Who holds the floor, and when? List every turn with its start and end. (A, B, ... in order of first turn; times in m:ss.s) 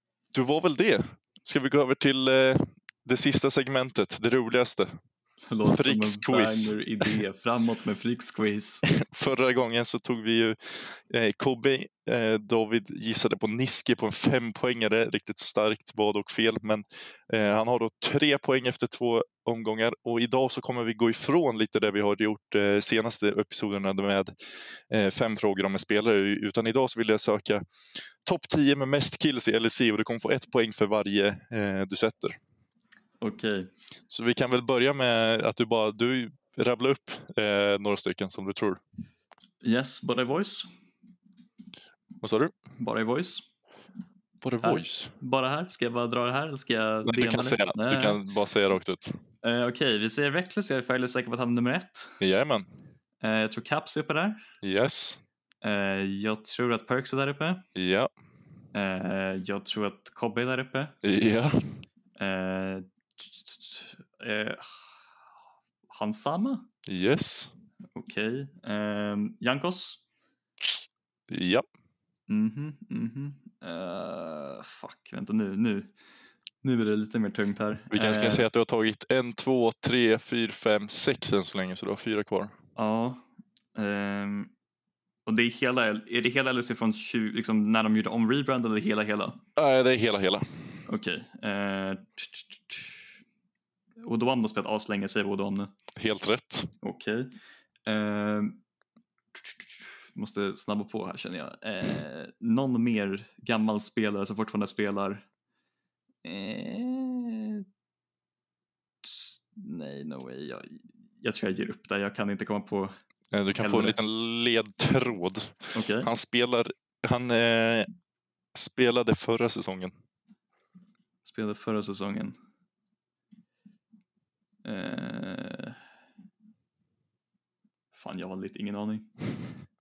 0:00.3-0:04.9 A
0:05.5-0:08.8 B
0:05.6-0:07.1 A
0:08.9-0:24.3 A
0:24.9-0:27.6 A
0:28.2-0:32.4 A
0:33.2-0:33.7 B
0:34.1-0:38.8 A
0:39.6-0:40.7 B
0:42.2-0:42.5 A
0:42.8-0:43.4 B
0:44.4-0:45.1 A
0:44.6-0:48.2 B
0:47.1-0:49.2 A
0:49.4-0:52.2 B
0:52.2-0:52.7 A
0:53.2-0:54.4 B
0:54.6-0:55.2 A
0:55.6-0:57.6 B
0:57.8-0:58.1 A
0:58.7-1:01.0 B
1:01.0-1:01.6 A
1:02.2-1:04.8 B
1:05.9-1:06.7 B
1:06.9-1:07.5 A
1:08.0-1:10.0 B
1:11.3-1:11.7 A
1:12.3-1:15.9 B
1:16.6-1:18.4 B
1:17.9-1:22.6 A
1:22.8-1:23.2 B
1:23.8-1:24.5 B
1:25.3-1:29.4 B
1:29.6-1:30.5 A
1:30.9-1:33.0 B
1:34.0-1:35.7 B
1:36.0-1:36.7 A
1:36.8-1:37.3 B
1:37.9-1:38.6 B
1:39.3-1:45.2 B
1:46.2-1:47.6 B
1:49.0-1:52.9 B
1:53.3-1:57.9 A
1:53.6-1:54.0 B
1:55.8-1:56.1 B
1:58.6-1:59.9 A
2:01.2-2:02.4 B
2:04.6-2:05.8 B
2:07.9-2:09.1 B